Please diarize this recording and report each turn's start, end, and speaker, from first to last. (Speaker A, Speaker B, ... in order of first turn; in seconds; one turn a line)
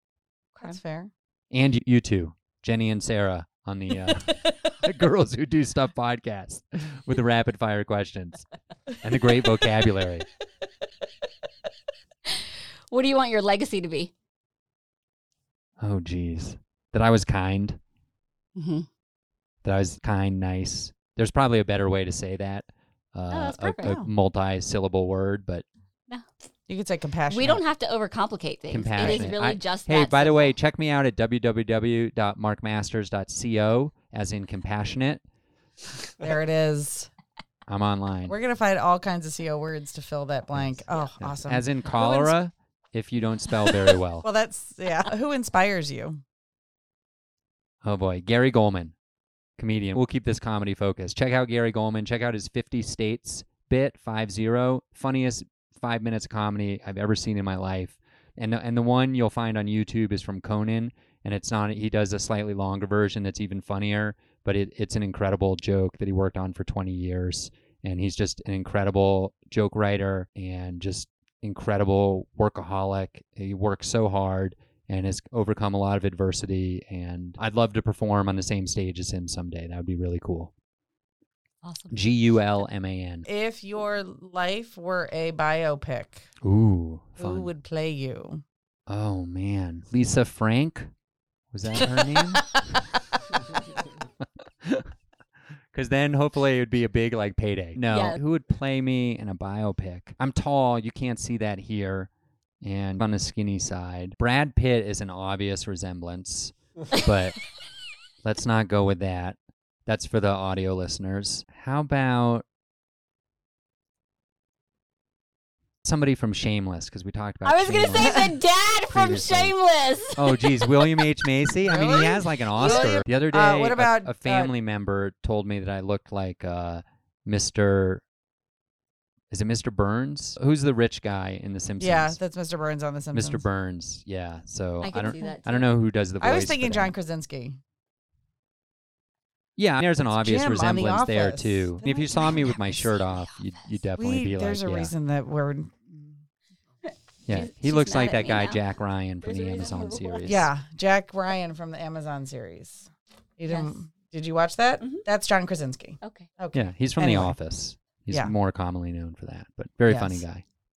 Speaker A: 0.6-1.1
Speaker B: 1.5-8.4
Speaker B: 9.0-10.2
Speaker C: 12.9-14.1
Speaker B: 15.8-17.8
Speaker C: 18.6-18.9
Speaker B: 19.6-25.6
Speaker C: 23.3-23.9
Speaker A: 23.8-24.1
Speaker A: 26.7-27.6
Speaker C: 27.3-30.6
Speaker B: 28.7-35.2
Speaker A: 29.0-29.4
Speaker A: 36.2-37.1
Speaker B: 37.7-38.3
Speaker A: 38.3-42.4
Speaker B: 40.6-44.2
Speaker A: 44.2-46.2
Speaker B: 47.8-48.9
Speaker B: 49.6-80.5
Speaker C: 81.6-82.1
Speaker B: 81.9-83.2
Speaker A: 83.2-86.2
Speaker B: 86.4-87.5
Speaker A: 87.2-88.4
Speaker B: 88.9-90.9
Speaker B: 91.5-92.6
Speaker A: 91.8-92.4
Speaker B: 95.7-102.1
Speaker C: 97.9-98.2
Speaker B: 102.6-107.4
Speaker B: 108.2-112.4
Speaker B: 115.8-119.5
Speaker C: 117.4-121.0
Speaker B: 120.2-128.0
Speaker A: 121.6-124.5
Speaker C: 122.5-123.0
Speaker B: 129.3-132.2
Speaker A: 131.8-133.4
Speaker B: 133.1-136.9
Speaker C: 134.8-135.7
Speaker A: 136.2-137.6
Speaker B: 139.6-144.9
Speaker A: 140.0-142.5
Speaker C: 142.1-143.7
Speaker A: 144.0-146.2
Speaker B: 147.3-150.5
Speaker C: 147.3-148.6
Speaker C: 149.2-150.4
Speaker A: 150.2-157.3
Speaker C: 153.5-153.7
Speaker C: 154.8-155.0
Speaker C: 156.0-156.3
Speaker B: 156.5-160.4
Speaker A: 159.9-160.2